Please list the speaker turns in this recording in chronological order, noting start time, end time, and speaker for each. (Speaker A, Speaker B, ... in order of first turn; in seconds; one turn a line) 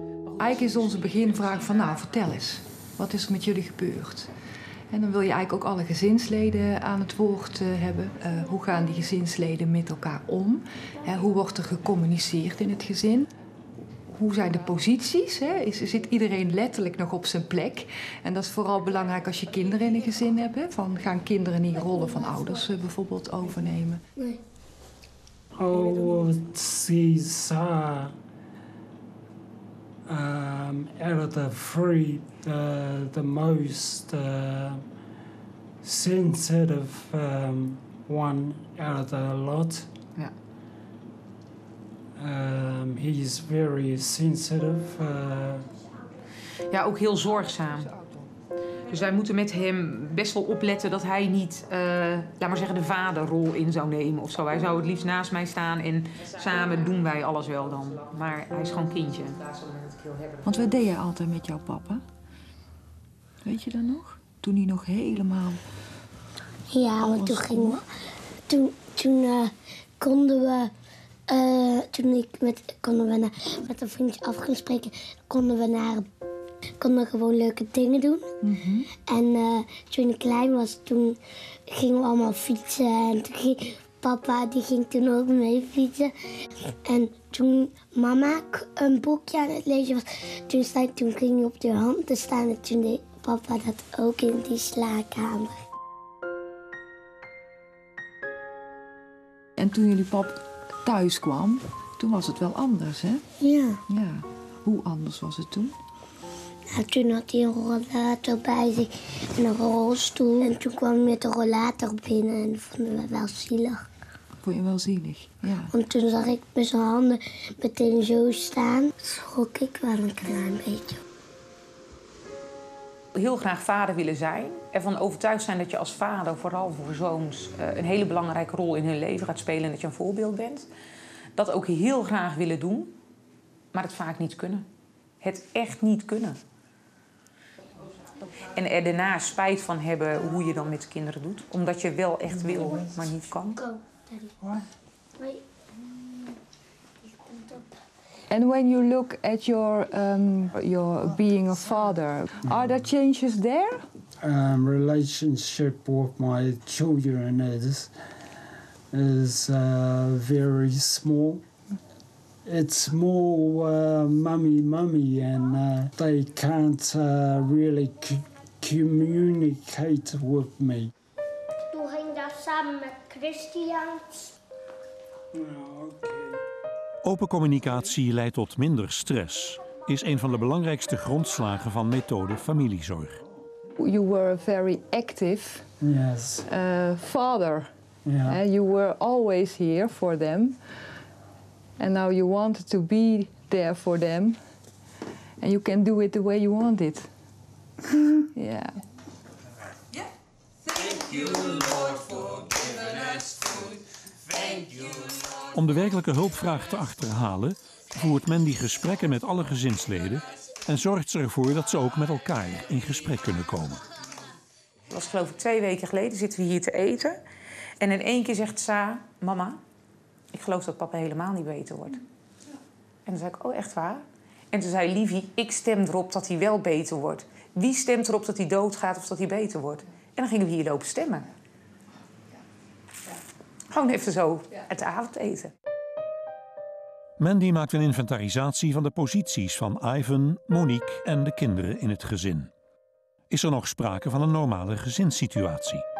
Speaker A: 0.2-2.1
Speaker B: 0.4-4.3
Speaker B: 4.9-13.3
Speaker B: 14.1-24.0
Speaker C: 25.5-28.1
Speaker C: 30.1-34.8
Speaker C: 35.8-39.9
Speaker C: 42.1-45.7
Speaker A: 46.7-47.9
Speaker B: 47.3-48.3
Speaker A: 48.9-60.6
Speaker B: 60.5-62.0
Speaker B: 63.4-65.6
Speaker D: 66.7-67.8
Speaker B: 67.0-67.8
Speaker D: 68.5-70.7
Speaker D: 71.3-76.1
Speaker D: 76.8-78.3
Speaker B: 78.4-78.9
Speaker D: 79.0-86.1
Speaker D: 86.8-95.6
Speaker B: 99.6-103.2
Speaker D: 103.4-103.8
Speaker B: 103.9-105.8
Speaker D: 106.7-113.8
Speaker B: 114.4-115.8
Speaker D: 115.7-121.0
Speaker A: 123.1-130.7
Speaker A: 131.3-132.9
Speaker A: 133.7-134.6
Speaker A: 135.2-136.4
Speaker A: 138.5-143.6
Speaker D: 143.6-144.3
Speaker D: 147.1-147.6
Speaker B: 148.3-153.8
Speaker C: 154.2-157.9
Speaker C: 158.9-161.4
Speaker C: 162.4-170.9
Speaker D: 171.7-174.2
Speaker C: 175.3-176.4
Speaker E: 177.0-183.2
Speaker B: 183.8-185.7
Speaker C: 185.8-186.4
Speaker B: 186.4-187.7
Speaker C: 188.1-188.4
Speaker B: 188.2-190.6
Speaker B: 191.8-194.4
Speaker B: 195.4-197.1
Speaker B: 197.9-198.8
Speaker E: 205.5-213.8
Speaker A: 214.9-217.2
Speaker A: 217.8-219.6
Speaker A: 220.3-222.0
Speaker A: 223.1-231.3
Speaker A: 233.7-235.5
Speaker E: 237.2-242.5
Speaker E: 243.3-245.8